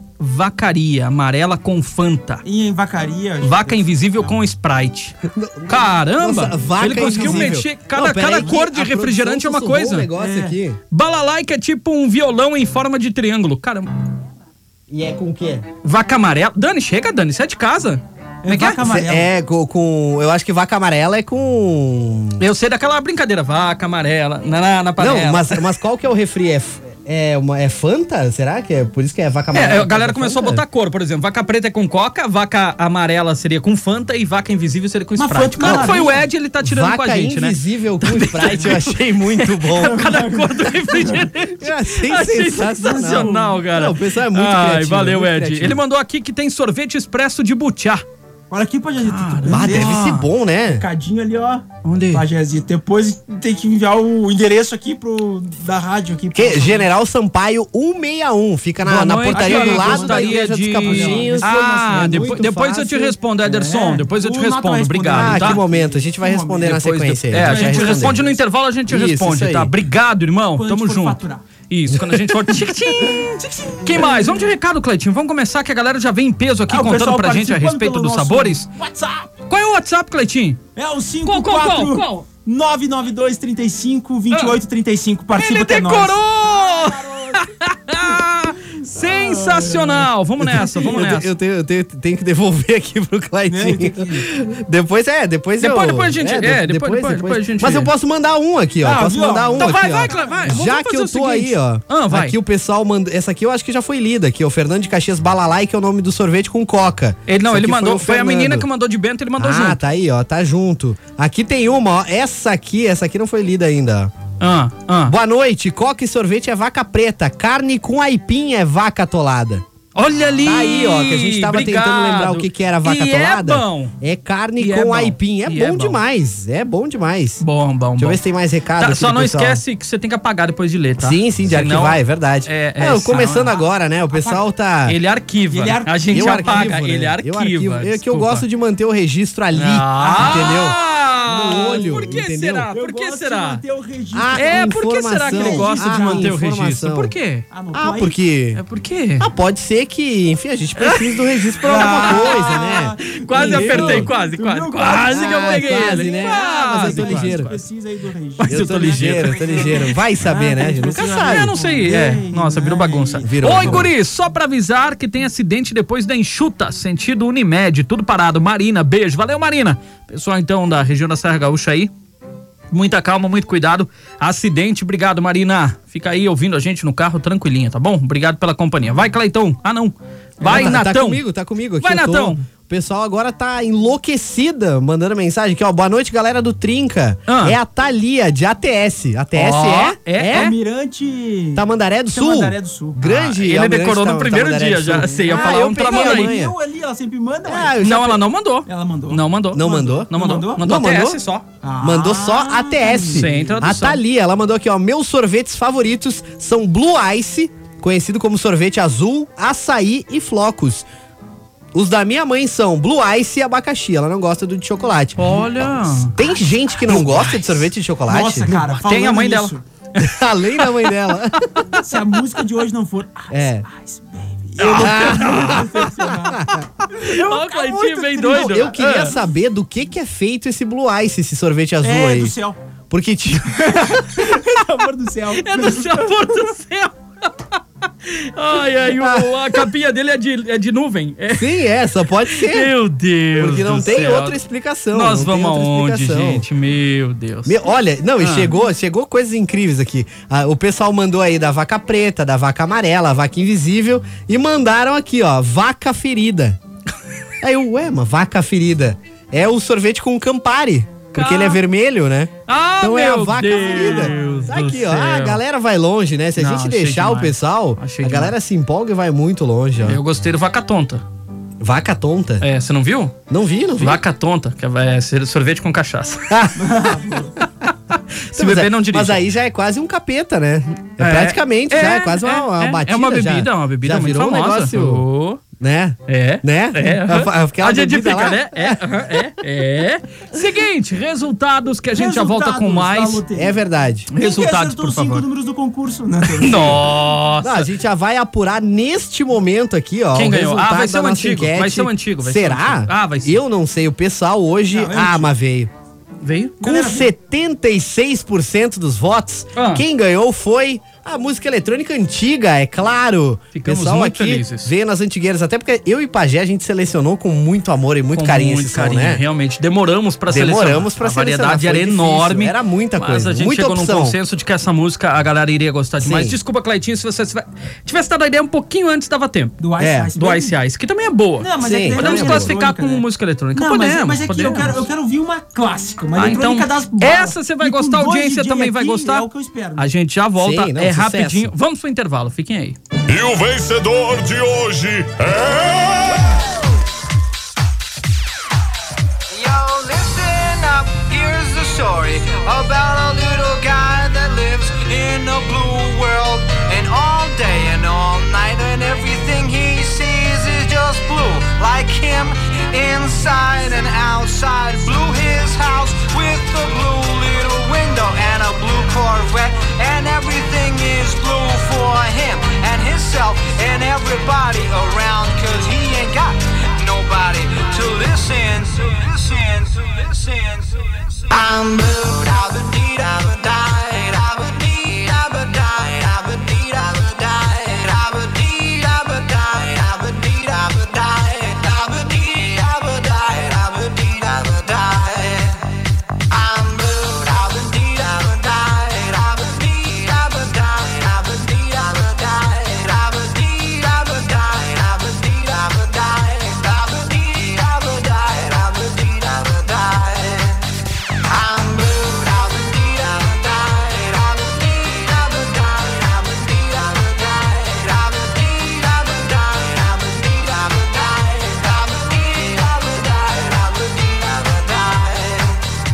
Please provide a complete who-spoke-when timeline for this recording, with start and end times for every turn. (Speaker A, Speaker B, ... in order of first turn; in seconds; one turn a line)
Speaker A: 0.2-2.4
Speaker B: 2.4-3.9
Speaker A: 3.4-5.2
Speaker C: 5.2-10.8
Speaker A: 5.7-10.1
Speaker B: 6.9-7.6
Speaker B: 10.2-10.6
Speaker A: 10.9-13.9
Speaker C: 14.9-15.6
Speaker A: 15.8-18.8
Speaker B: 18.4-19.3
Speaker C: 18.8-22.4
Speaker A: 22.4-25.6
Speaker C: 25.0-30.6
Speaker A: 29.5-48.0
Speaker B: 35.2-36.2
Speaker C: 35.6-36.0
Speaker C: 36.6-40.1
Speaker B: 39.8-41.2
Speaker C: 41.5-45.8
Speaker B: 42.7-43.6
Speaker B: 48.5-50.0
Speaker A: 49.0-50.2
Speaker C: 49.5-50.9
Speaker B: 50.8-56.9
Speaker A: 51.8-52.2
Speaker C: 56.3-63.1
Speaker A: 58.8-65.6
Speaker B: 59.3-62.3
Speaker B: 63.4-66.7
Speaker C: 65.1-68.2
Speaker A: 66.6-78.7
Speaker B: 67.3-68.4
Speaker C: 68.9-69.7
Speaker B: 70.5-71.4
Speaker C: 71.9-72.6
Speaker B: 73.0-74.3
Speaker B: 76.7-79.3
Speaker A: 79.5-80.6
Speaker B: 80.8-87.4
Speaker A: 81.2-82.2
Speaker A: 84.3-84.5
Speaker A: 85.4-91.3
Speaker B: 88.8-90.8
Speaker C: 90.4-108.7
Speaker B: 93.5-94.3
Speaker A: 95.6-97.9
Speaker B: 98.8-100.6
Speaker A: 99.6-102.3
Speaker A: 107.3-109.8
Speaker C: 109.4-114.1
Speaker A: 114.4-115.1
Speaker C: 115.1-119.6
Speaker A: 119.9-123.9
Speaker C: 120.4-127.4
Speaker A: 124.6-126.0
Speaker A: 127.4-128.2
Speaker C: 128.0-129.6
Speaker A: 128.8-133.5
Speaker C: 131.0-135.0
Speaker B: 133.2-134.4
Speaker A: 134.8-138.4
Speaker B: 135.5-136.7
Speaker C: 136.1-142.7
Speaker A: 139.5-143.6
Speaker B: 140.0-140.7
Speaker B: 141.3-146.3
Speaker C: 144.1-147.1
Speaker A: 144.3-147.4
Speaker B: 147.5-148.2
Speaker C: 147.7-148.6
Speaker A: 148.6-149.3
Speaker C: 149.2-154.1
Speaker A: 150.8-151.0
Speaker A: 151.6-157.6
Speaker B: 151.7-163.9
Speaker C: 155.1-157.5
Speaker A: 158.4-159.9
Speaker C: 158.4-161.5
Speaker A: 161.2-171.9
Speaker C: 163.2-163.9
Speaker A: 172.7-181.2
Speaker B: 180.4-180.8
Speaker C: 180.4-190.5
Speaker A: 181.8-182.4
Speaker A: 187.3-187.6
Speaker A: 189.3-190.5
Speaker B: 190.3-193.0
Speaker C: 191.5-196.5
Speaker A: 193.0-196.3
Speaker B: 195.1-197.8
Speaker C: 197.5-198.2
Speaker A: 197.8-201.4
Speaker B: 198.7-200.7
Speaker C: 199.5-201.2
Speaker B: 201.6-203.2
Speaker C: 201.8-210.9
Speaker A: 203.1-204.0
Speaker C: 211.7-218.5
Speaker A: 215.2-216.2
Speaker A: 216.8-217.6
Speaker B: 218.1-219.6
Speaker A: 218.5-220.8
Speaker C: 220.0-221.7
Speaker B: 221.8-229.1
Speaker C: 223.3-223.7
Speaker A: 224.6-225.9
Speaker C: 224.6-226.6
Speaker A: 226.8-229.1
Speaker C: 228.2-232.3
Speaker B: 231.8-232.6
Speaker C: 232.9-234.0
Speaker B: 233.6-236.5
Speaker A: 235.4-241.6
Speaker C: 238.9-239.6
Speaker C: 241.3-242.7
Speaker A: 242.3-244.4
Speaker C: 243.3-246.4
Speaker A: 244.9-247.6
Speaker C: 247.4-256.6
Speaker A: 248.2-248.5
Speaker C: 257.4-270.0
Speaker A: 261.1-261.6
Speaker A: 262.5-265.4
Speaker B: 263.8-264.1
Speaker A: 266.4-268.3
Speaker A: 269.8-271.0
Speaker C: 271.6-272.4
Speaker A: 272.4-273.1
Speaker C: 273.3-274.0
Speaker A: 273.8-276.4
Speaker C: 276.3-276.6
Speaker B: 276.6-277.3
Speaker A: 277.4-279.2
Speaker C: 278.3-285.0
Speaker A: 281.0-285.4
Speaker C: 285.6-289.2
Speaker A: 286.1-293.2
Speaker B: 291.9-293.6
Speaker C: 293.3-294.1
Speaker A: 294.1-295.2
Speaker B: 294.1-296.9
Speaker A: 296.3-297.7
Speaker C: 297.4-305.7
Speaker A: 300.1-303.4
Speaker B: 304.7-305.3
Speaker A: 306.2-306.5
Speaker B: 306.6-307.1
Speaker C: 306.6-319.2
Speaker A: 309.5-309.8
Speaker A: 313.5-314.7
Speaker A: 318.1-329.6
Speaker C: 320.3-324.2
Speaker C: 326.0-326.4
Speaker B: 329.6-330.5
Speaker C: 329.8-330.1
Speaker A: 330.2-334.8
Speaker B: 331.4-339.9
Speaker C: 331.6-332.5
Speaker A: 336.1-342.8
Speaker C: 340.4-341.5
Speaker D: 343.1-346.3
Speaker E: 349.3-395.8
Speaker E: 396.3-410.7
Speaker E: 411.3-425.7